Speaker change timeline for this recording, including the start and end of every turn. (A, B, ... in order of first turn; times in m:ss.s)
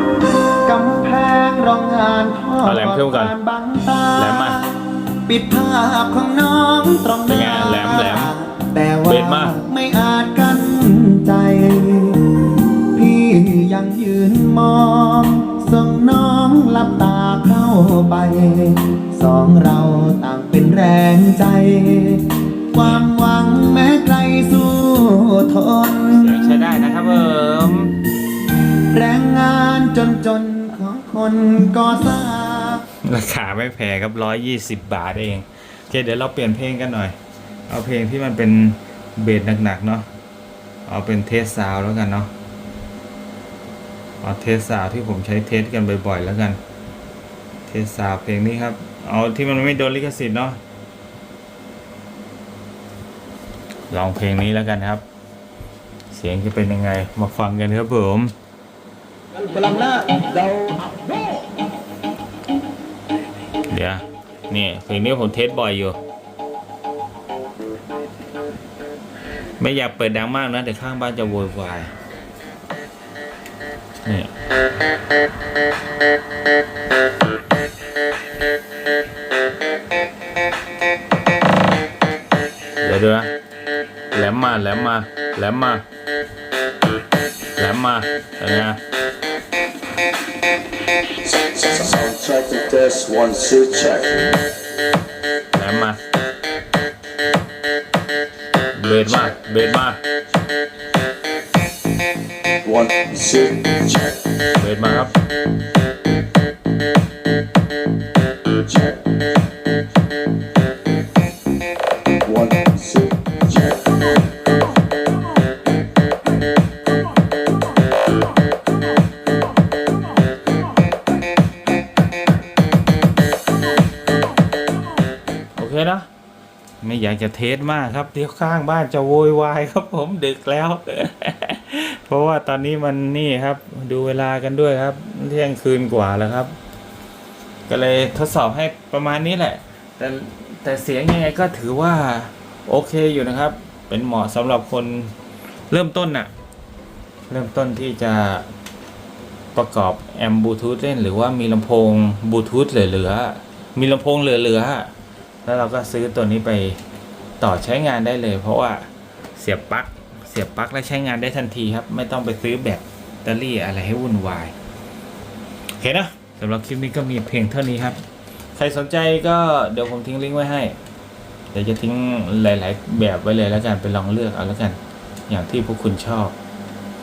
0:00.6-0:26.4 A
0:02.6-0:03.4 B
0:04.2-0:04.6 B
0:07.3-0:08.3 B
0:09.0-0:09.6 B
0:22.8-0:23.1 B
0:26.1-0:28.0 B
0:28.9-0:32.9 A
0:33.0-0:37.2 B
0:37.7-0:40.1 B
0:40.9-0:42.3 B
0:44.2-0:46.6 B
0:47.7-0:50.6 B
0:53.9-0:55.0 B
0:56.1-0:58.3 B
1:03.7-1:06.0 B
1:09.6-1:11.9 B
1:14.0-1:14.3 B
1:22.8-1:23.3 B
1:24.1-1:25.8 B
1:27.6-1:28.8 B
1:31.8-1:34.3 C
1:35.5-1:36.0 B
1:38.7-1:40.0 B
1:42.6-1:44.0 C
1:44.4-1:45.2 B
1:52.3-1:53.8 C
2:05.6-2:06.1 B
2:06.8-2:16.6 B
2:17.7-2:25.1 B
2:25.7-2:26.3 B
2:27.3-2:28.5 B
2:29.6-2:34.9 B
2:35.4-2:36.8 B
2:37.4-2:44.6 B
2:45.8-2:48.0 B
2:48.6-2:50.8 B
2:51.5-2:54.8 B
2:55.3-2:56.4 B